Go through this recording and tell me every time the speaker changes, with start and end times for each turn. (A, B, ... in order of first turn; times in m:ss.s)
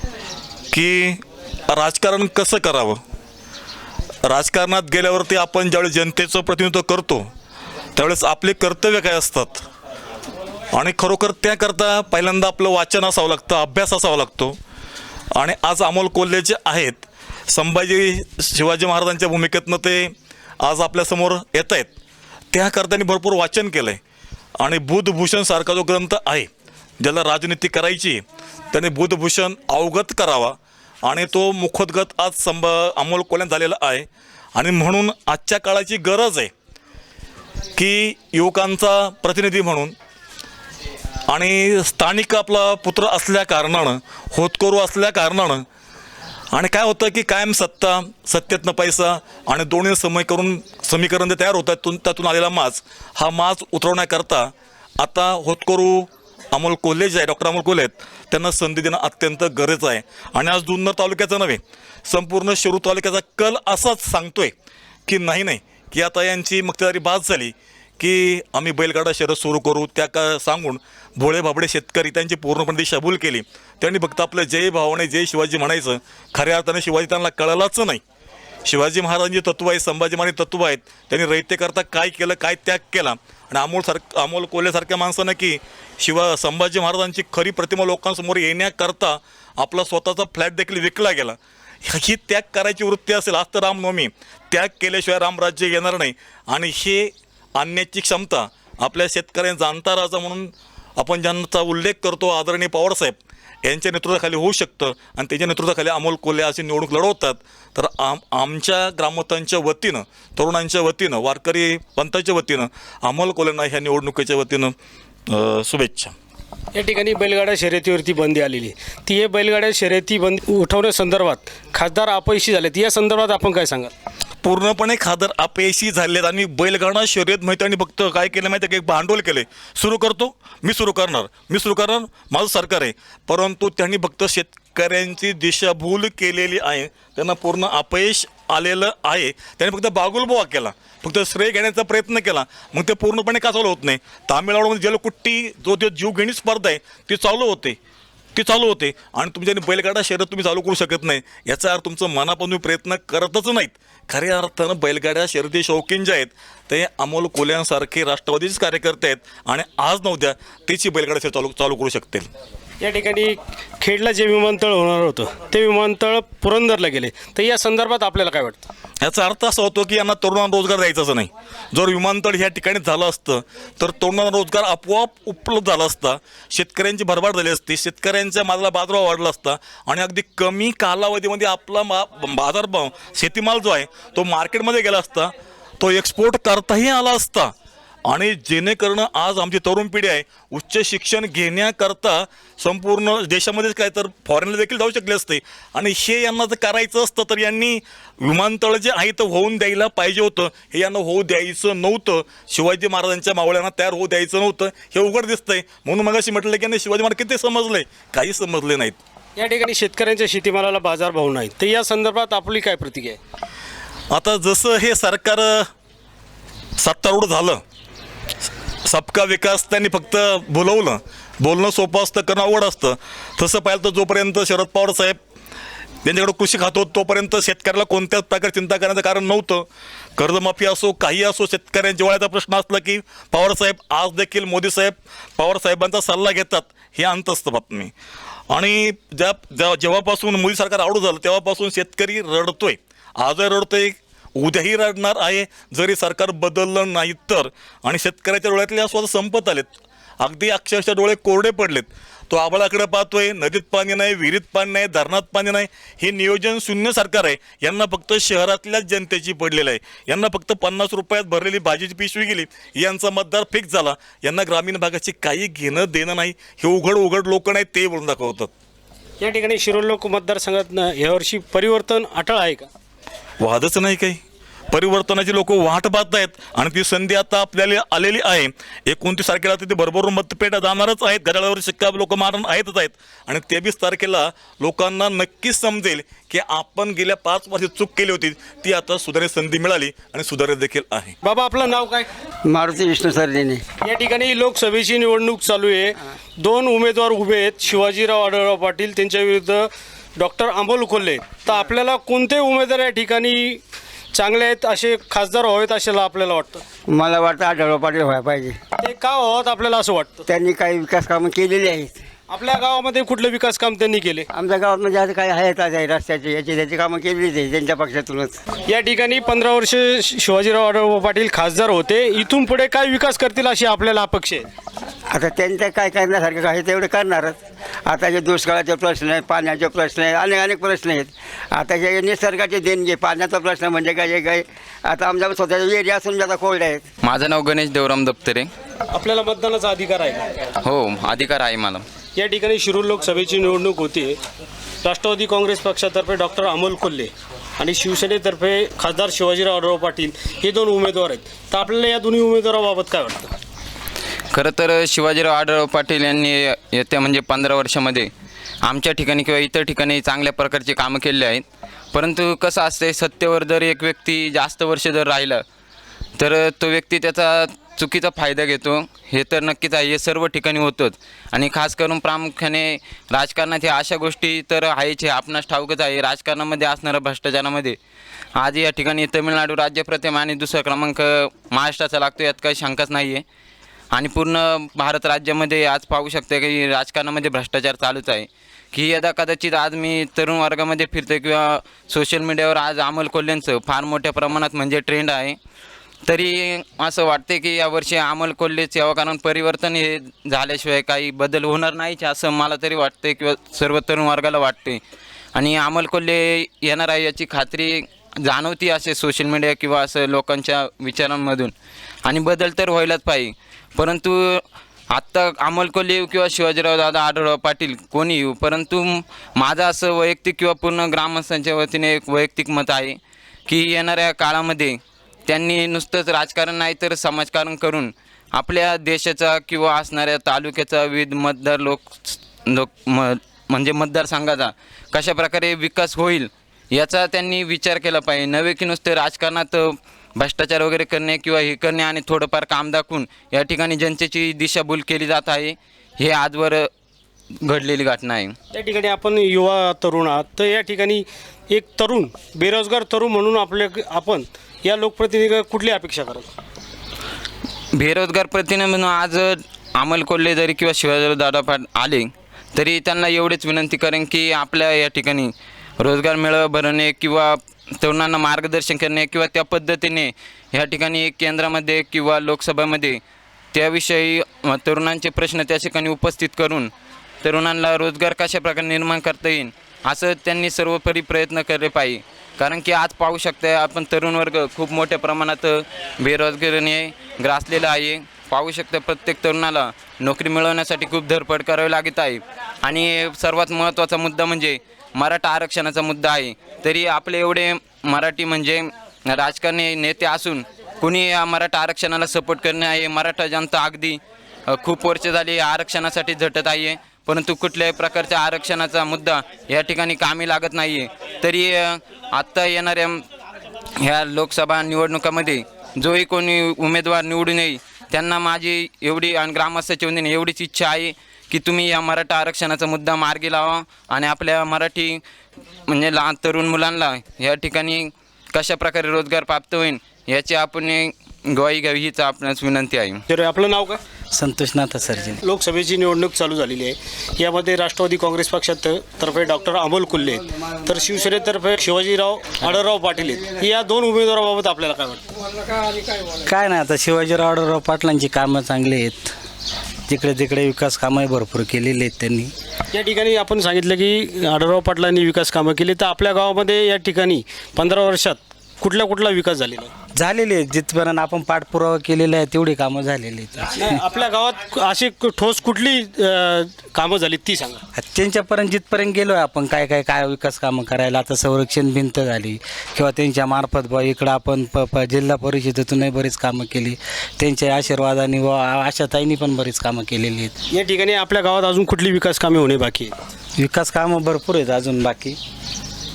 0:00.7-0:03.0 A
0:04.3-0:07.3 A
0:08.0-0:09.6 A
0:10.7-0:14.6 A
0:15.4-0:21.9 A
0:22.5-0:24.0 A
0:24.6-0:26.5 A
0:27.0-0:36.5 A
0:37.8-0:39.9 A
0:41.3-0:45.6 A
0:46.5-1:04.5 A
1:05.1-1:18.0 A
1:18.6-1:54.7 A
1:55.3-1:56.1 A
1:56.7-2:03.9 B
2:04.4-2:27.8 A
2:28.3-2:42.3 A
2:42.8-2:48.6 B
2:49.0-3:07.5 A
3:08.1-3:29.0 A
3:29.4-3:33.2 B
3:34.1-3:35.7 A
3:36.8-3:37.6 A
3:38.8-3:45.2 A
3:46.0-3:49.6 A
3:50.2-3:57.9 A
3:58.5-4:28.5 A
4:29.2-4:32.7 B
4:33.4-4:34.2 A
4:34.7-4:51.2 A
4:51.2-4:52.1 B
4:52.5-4:53.6 C
4:53.8-5:03.6 B
5:04.1-5:06.6 B
5:06.9-5:08.6 C
5:08.8-5:10.2 B
5:10.3-5:12.0 C
5:12.3-5:14.3 B
5:14.3-5:18.4 C
5:18.7-5:24.5 B
5:25.1-5:36.8 C
5:37.0-5:38.5 D
5:38.9-5:40.3 B
5:40.6-5:41.8 D
5:42.2-5:44.2 B
5:44.8-5:53.3 B
5:54.3-5:58.1 D
5:58.6-6:05.4 D
6:06.2-6:17.8 D
6:18.4-6:23.2 D
6:23.9-6:35.4 D
6:36.1-6:44.8 D
6:45.3-6:51.5 D
6:52.0-7:26.7 D
7:27.4-7:28.4 D
7:28.5-7:36.3 B
7:37.8-7:53.0 D
7:53.5-7:56.7 D
7:57.2-8:33.0 D
8:33.8-8:45.0 D
8:45.7-8:53.0 D
8:53.1-8:53.8 B
8:54.1-8:55.2 E
8:55.2-9:05.0 B
9:06.2-9:09.1 E
9:09.9-9:12.3 E
9:12.7-9:19.7 B
9:20.0-9:23.7 E
9:23.6-9:27.6 B
9:27.7-9:40.3 E
9:40.5-9:42.9 B
9:43.4-9:45.2 E